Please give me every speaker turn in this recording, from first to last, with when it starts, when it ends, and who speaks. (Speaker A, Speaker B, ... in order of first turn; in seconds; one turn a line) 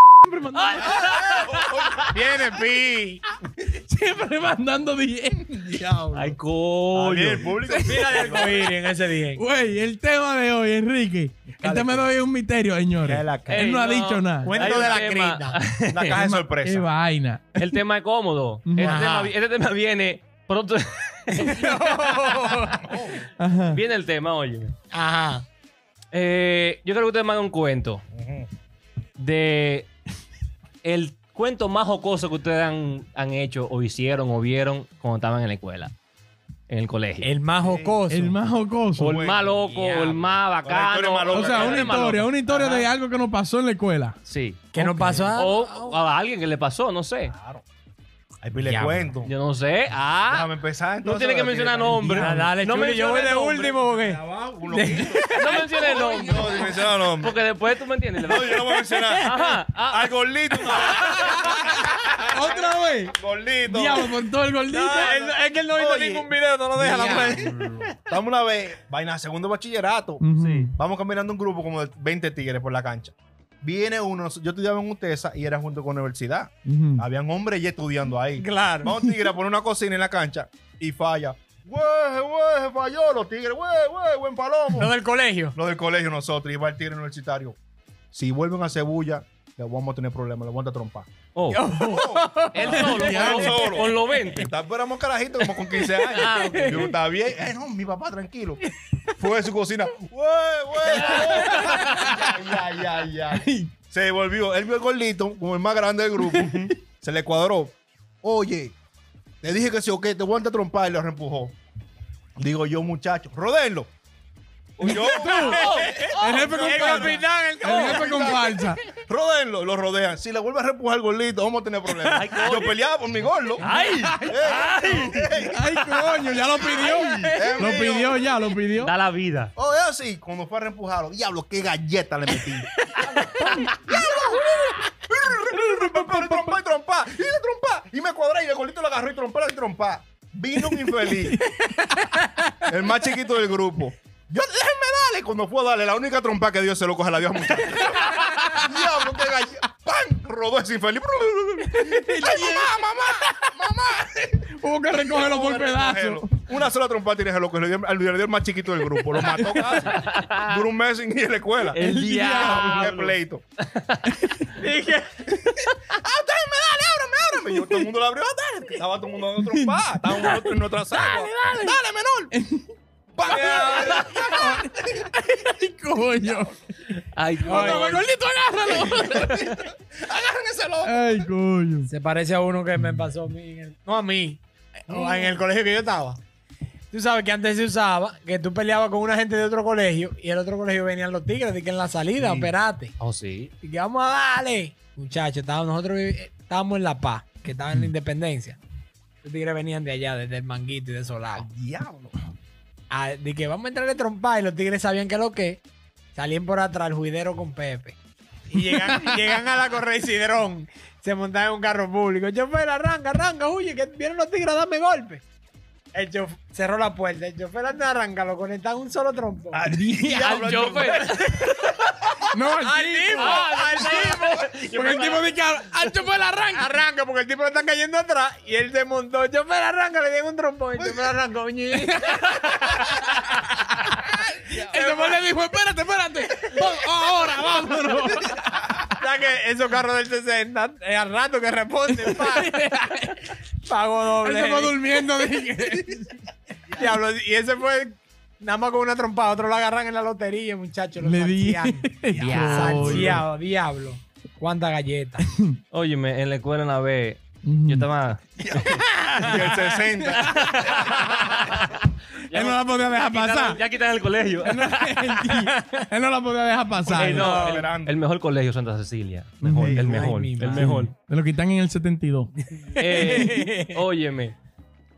Speaker A: 0.2-1.2
Speaker B: 0.6-2.1
Speaker C: 0.8-2.4
Speaker D: 2.1-3.2
Speaker A: 3.6-5.6
Speaker C: 5.5-6.4
Speaker B: 6.1-7.5
Speaker C: 6.9-8.6
Speaker A: 7.6-8.4
Speaker D: 7.8-9.4
Speaker A: 9.3-14.6
Speaker C: 11.6-12.1
Speaker C: 13.0-13.6
Speaker B: 13.5-16.2
Speaker D: 14.4-15.6
Speaker C: 14.6-15.0
Speaker C: 15.9-16.9
Speaker A: 16.1-17.8
Speaker B: 17.6-21.6
Speaker A: 18.6-19.0
Speaker D: 18.8-19.3
Speaker D: 21.3-23.0
Speaker C: 22.7-23.3
Speaker A: 23.4-23.8
Speaker B: 23.7-24.7
Speaker D: 24.9-25.4
Speaker B: 26.1-28.0
Speaker C: 28.1-28.5
Speaker B: 29.2-29.9
Speaker B: 30.8-35.9
Speaker B: 36.7-37.3
Speaker D: 37.2-38.4
Speaker C: 37.6-38.0
Speaker A: 38.1-39.2
Speaker C: 38.9-42.1
Speaker B: 39.0-42.9
Speaker A: 41.3-44.2
Speaker B: 44.3-44.7
Speaker D: 44.7-46.0
Speaker C: 44.8-45.3
Speaker B: 45.3-47.3
Speaker C: 47.3-47.6
Speaker C: 48.4-49.3
Speaker D: 48.7-48.9
Speaker B: 48.9-53.8
Speaker C: 50.3-52.3
Speaker A: 52.0-52.5
Speaker D: 52.1-56.5
Speaker C: 53.7-57.4
Speaker B: 55.4-58.5
Speaker C: 58.2-64.1
Speaker D: 58.4-59.5
Speaker B: 59.2-60.1
Speaker A: 60.9-61.6
Speaker A: 62.3-65.1
Speaker D: 64.7-67.8
Speaker C: 64.8-70.2
Speaker B: 67.0-67.4
Speaker A: 70.2-70.7
Speaker B: 70.3-70.7
Speaker C: 70.8-84.9
Speaker A: 76.7-77.0
Speaker D: 78.4-78.9
Speaker D: 84.8-85.5
Speaker C: 85.5-87.6
Speaker C: 88.1-91.1
Speaker B: 91.3-91.6
Speaker D: 91.5-93.5
Speaker C: 91.7-98.6
Speaker B: 92.5-94.5
Speaker A: 92.7-93.7
Speaker D: 95.7-96.9
Speaker B: 96.2-96.9
Speaker C: 99.1-108.7
Speaker B: 100.9-102.1
Speaker D: 100.9-101.9
Speaker C: 109.4-111.5
Speaker C: 112.4-113.9
Speaker B: 114.8-117.0
Speaker C: 114.8-125.9
Speaker D: 115.2-118.8
Speaker A: 115.2-115.5
Speaker A: 116.1-118.8
Speaker B: 117.6-118.0
Speaker B: 122.1-122.7
Speaker B: 123.6-125.1
Speaker A: 123.6-124.3
Speaker A: 125.5-128.9
Speaker D: 125.8-127.8
Speaker C: 127.3-128.3
Speaker B: 128.8-129.5
Speaker C: 129.6-132.7
Speaker D: 133.1-133.6
Speaker A: 133.4-133.8
Speaker C: 133.8-141.4
Speaker A: 135.5-136.6
Speaker A: 141.2-142.2
Speaker C: 142.7-154.4
Speaker A: 148.3-148.7
Speaker A: 151.7-153.6
Speaker A: 154.5-156.3
Speaker C: 155.0-163.4
Speaker B: 159.7-160.6
Speaker B: 161.7-164.2
Speaker A: 161.8-162.9
Speaker D: 164.6-165.4
Speaker C: 165.3-172.3
Speaker A: 169.4-171.8
Speaker A: 172.3-172.7
Speaker C: 173.1-175.0
Speaker D: 173.2-174.1
Speaker B: 173.7-174.0
Speaker A: 174.1-176.5
Speaker B: 177.1-178.1
Speaker A: 177.4-179.6
Speaker D: 177.5-178.0
Speaker C: 178.6-181.3
Speaker A: 180.8-181.9
Speaker D: 181.9-186.2
Speaker A: 184.9-185.3
Speaker D: 186.9-192.9
Speaker C: 192.2-192.5
Speaker B: 193.0-193.5
Speaker D: 193.6-198.6
Speaker D: 199.2-201.5
Speaker C: 201.4-202.1
Speaker D: 202.9-205.6
Speaker D: 206.1-208.0
Speaker D: 208.5-215.2
Speaker A: 208.8-209.2
Speaker D: 215.9-219.6
Speaker C: 219.5-221.1
Speaker A: 219.7-220.4
Speaker B: 220.3-221.9
Speaker D: 221.1-225.3
Speaker A: 222.3-223.4
Speaker B: 223.2-225.0
Speaker C: 223.7-224.6
Speaker A: 224.7-226.7
Speaker D: 226.5-233.6
Speaker C: 230.8-231.1
Speaker D: 234.5-235.2
Speaker A: 234.5-238.9
Speaker D: 239.0-242.9
Speaker A: 241.9-243.2
Speaker D: 243.6-244.8
Speaker A: 244.2-246.2
Speaker D: 246.7-255.2
Speaker A: 251.0-253.2
Speaker C: 252.1-253.2
Speaker B: 252.1-253.1
Speaker A: 255.2-255.6
Speaker B: 255.7-258.8
Speaker A: 257.4-257.9
Speaker C: 258.4-261.4
Speaker D: 258.7-259.6
Speaker B: 260.4-261.7
Speaker B: 262.3-265.1
Speaker D: 262.4-263.6
Speaker A: 264.4-267.4
Speaker D: 265.1-265.8
Speaker D: 266.9-267.7
Speaker B: 266.9-270.9
Speaker C: 266.9-267.9
Speaker A: 269.4-272.3
Speaker C: 269.5-270.1
Speaker D: 269.8-270.7
Speaker D: 272.6-273.8
Speaker B: 272.8-274.4